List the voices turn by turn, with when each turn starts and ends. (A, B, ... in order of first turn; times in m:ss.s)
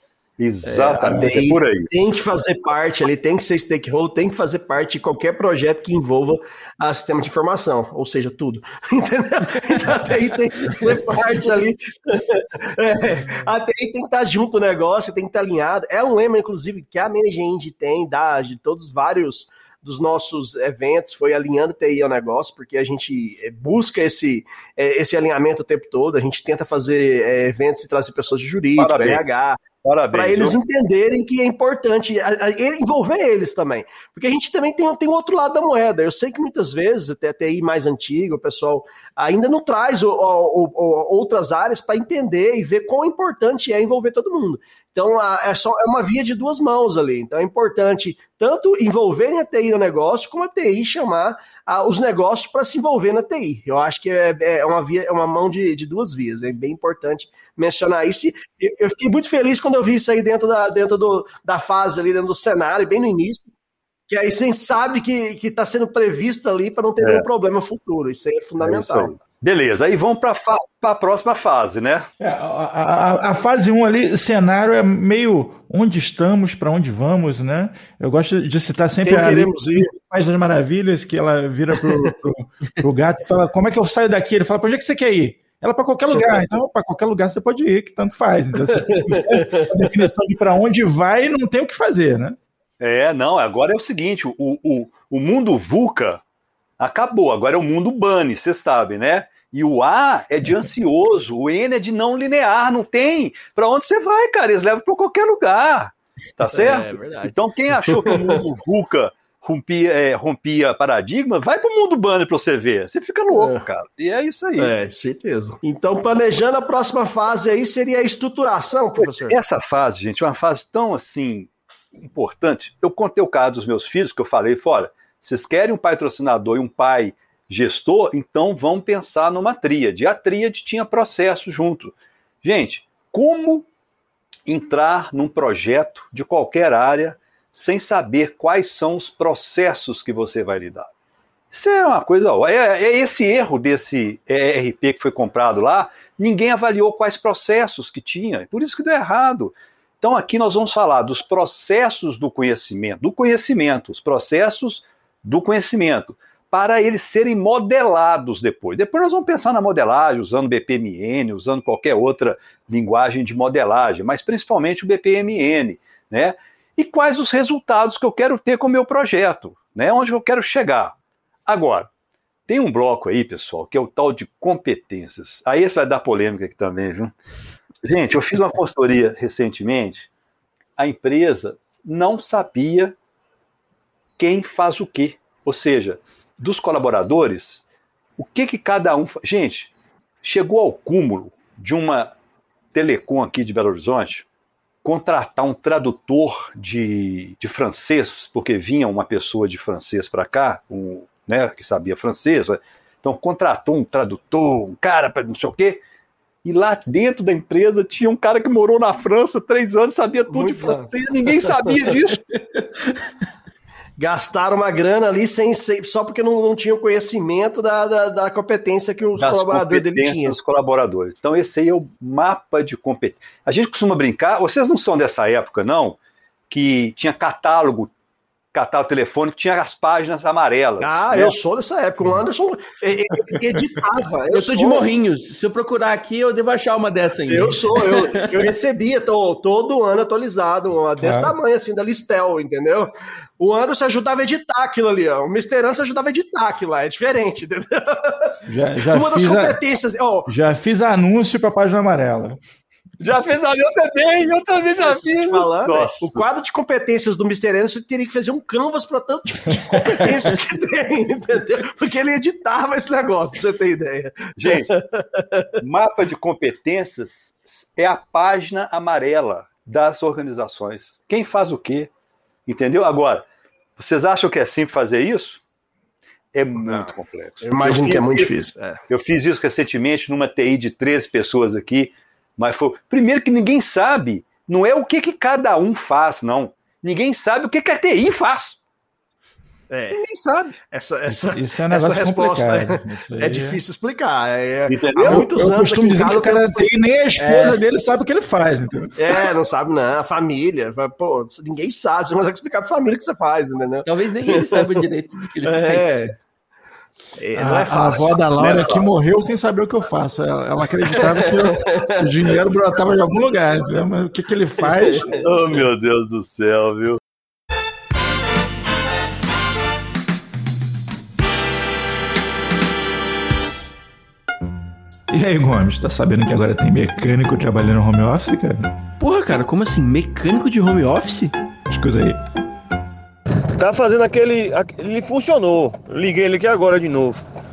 0:00.4-0:01.9 A
0:00.6-0:29.6 B
0:01.0-0:01.3 C
0:28.8-0:30.6 A
0:30.1-1:03.5 B
1:04.1-1:09.1 B
1:07.0-1:07.3 A
1:08.6-1:12.0 A
1:12.2-1:32.4 C
1:19.0-1:19.9 B
1:21.8-1:22.1 B
1:28.7-1:29.7 B
1:32.8-1:36.2 A
1:36.8-1:54.7 A
1:46.5-1:47.3 B
1:47.9-1:48.4 B
1:53.3-1:53.6 B
1:54.6-1:59.4 B
1:59.0-2:13.7 A
2:14.5-2:20.9 A
2:21.5-2:51.0 A
2:51.5-2:51.9 A
2:52.5-2:57.1 A
2:57.8-3:00.1 A
3:00.8-3:02.9 A
3:04.2-3:07.6 A
3:08.2-3:09.7 A
3:10.2-3:12.1 A
3:12.7-3:14.2 A
3:14.8-3:25.8 A
3:26.4-3:32.2 A
3:30.3-3:31.7 B
3:34.0-3:40.4 B
3:39.2-3:46.0 A
3:46.5-3:47.9 A
3:48.5-3:51.4 A
3:50.8-3:54.9 B
3:54.3-3:58.0 D
3:57.2-4:08.4 B
4:01.0-4:01.3 C
4:08.5-4:09.6 C
4:08.9-4:10.3 B
4:10.3-4:12.4 C
4:13.0-4:16.2 A
4:14.8-4:25.5 B
4:24.4-4:24.7 A
4:25.6-4:31.9 A
4:32.5-4:33.2 A
4:33.8-4:35.4 A
4:36.3-4:38.3 A
4:37.4-4:38.8 B
4:38.9-4:48.6 A
4:49.7-4:50.0 B
4:49.9-4:50.6 A
4:50.7-4:56.7 B
4:51.1-4:53.6 C
4:54.7-4:55.3 A
4:55.0-4:58.9 C
4:57.2-4:57.6 D
4:59.0-5:04.8 B
5:03.8-5:06.0 D
5:05.4-5:06.1 B
5:07.2-5:08.2 B
5:07.3-5:15.6 C
5:08.4-5:08.8 A
5:11.2-5:12.0 B
5:14.6-5:15.2 B
5:15.2-5:17.0 A
5:25.1-5:28.7 C
5:29.0-5:31.3 D
5:31.7-5:32.2 C
5:33.6-5:37.2 E